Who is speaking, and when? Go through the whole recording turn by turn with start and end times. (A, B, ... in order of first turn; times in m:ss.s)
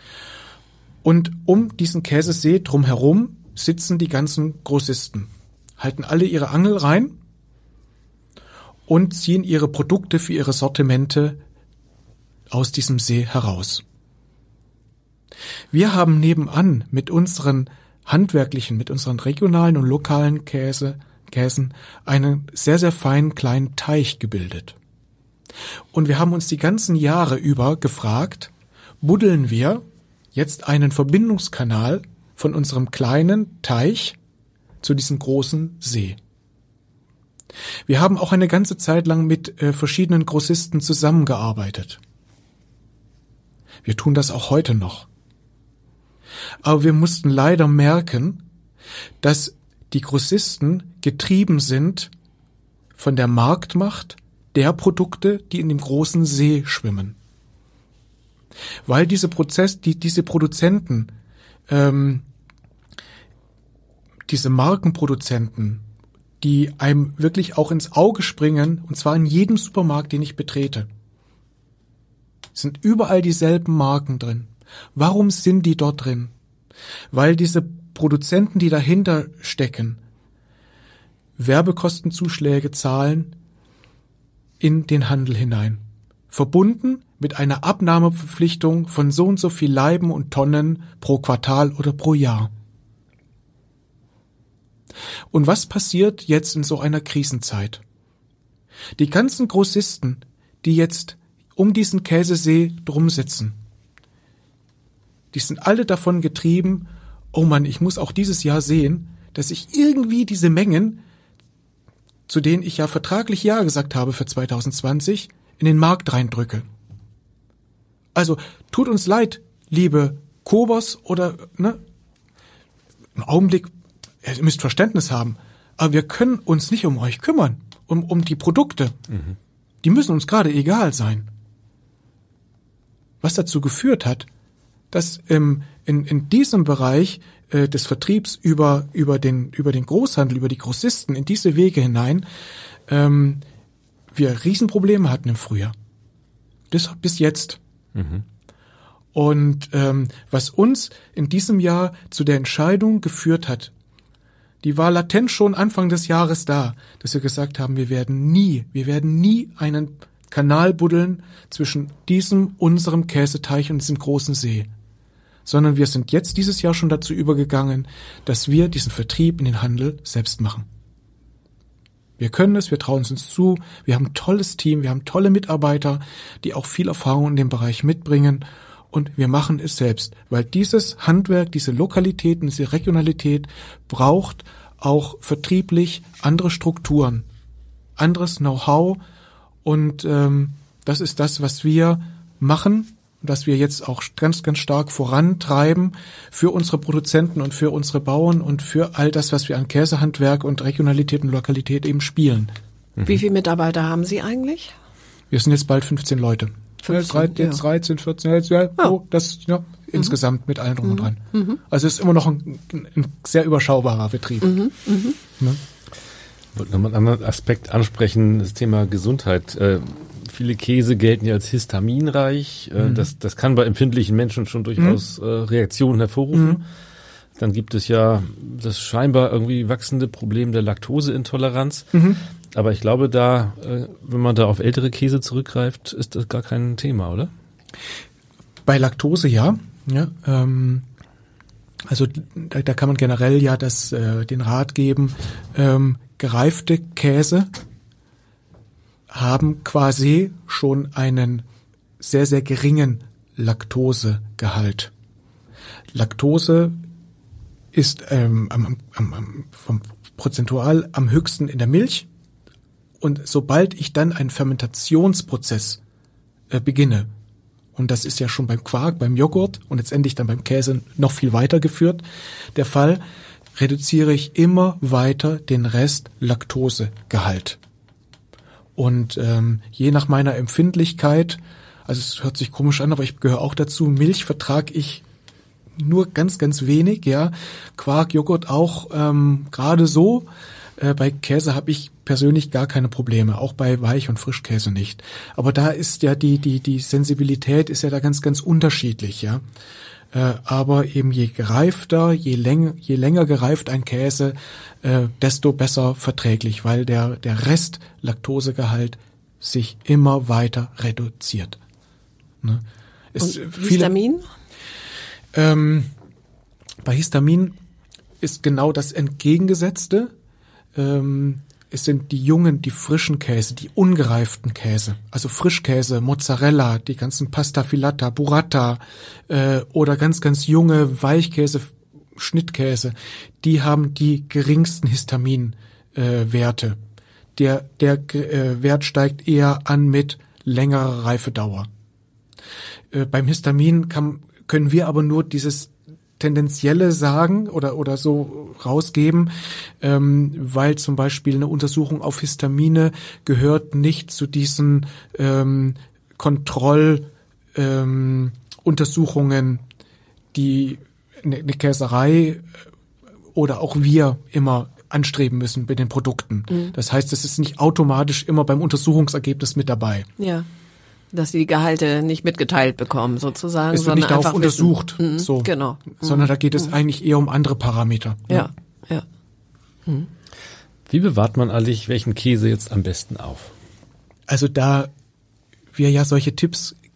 0:01.0-0:07.2 A
0:08.9-0:11.4 A
0:12.5-0:13.8 A
0:15.7-0:24.8 A
0:25.9-0:34.2 A
0:34.8-0:36.2 A
0:37.9-0:42.0 A
0:43.8-0:45.1 A
0:46.6-0:48.4 A
0:49.2-0:52.1 A
0:53.0-0:57.2 A
0:58.9-1:01.1 A
1:01.7-1:02.2 A
1:04.3-1:05.8 A
1:06.4-1:10.9 A
1:12.5-1:16.3 A
1:17.1-1:20.0 A
1:21.4-1:23.3 A
1:24.6-1:32.5 A
1:35.3-1:37.8 A
1:39.0-1:43.6 A
1:45.3-1:51.0 A
1:52.3-1:56.6 A
1:58.1-2:01.8 A
2:03.1-2:03.7 A
2:04.2-2:09.0 A
2:09.8-2:11.3 A
2:13.2-2:14.3 A
2:14.9-2:22.2 A
2:22.9-2:23.4 A
2:24.1-2:25.7 A
2:26.7-2:27.6 A
2:27.9-2:28.2 B
2:29.1-2:33.7 A
2:34.6-2:44.7 A
2:45.4-2:50.6 A
2:52.2-3:07.2 A
3:08.0-3:09.0 A
3:09.6-3:22.5 A
3:23.0-3:24.7 C
3:25.3-3:34.6 A
3:26.8-3:27.6 C
3:30.9-3:31.6 C
3:34.4-3:35.2 C
3:36.5-3:46.6 B
3:42.8-3:43.1 A
3:46.3-3:46.6 A
3:47.4-3:52.0 B
3:51.9-3:52.2 A
3:52.5-3:57.3 B
3:58.6-4:00.8 A
4:01.9-4:07.5 A
4:09.1-4:11.4 A
4:12.0-4:14.9 A
4:15.9-4:16.8 A
4:17.7-4:22.1 A
4:23.0-4:25.8 A
4:26.5-4:27.1 A
4:27.7-4:32.0 A
4:32.5-4:33.0 A
4:33.6-4:37.6 A
4:38.8-4:45.0 A
4:45.8-4:59.4 A
5:00.1-5:11.6 A
5:12.4-5:13.9 A
5:13.2-5:14.2 C
5:15.3-5:15.9 A
5:16.8-5:17.6 A
5:18.2-5:20.1 A
5:20.7-5:36.8 A
5:37.4-5:41.7 A
5:42.9-5:59.6 A
6:00.3-6:02.5 A
6:03.3-6:10.1 A
6:10.2-6:10.5 C
6:11.1-6:16.7 C
6:13.7-6:18.5 A
6:18.3-6:19.0 C
6:20.9-6:23.5 B
6:24.3-6:24.9 A
6:25.7-6:26.8 A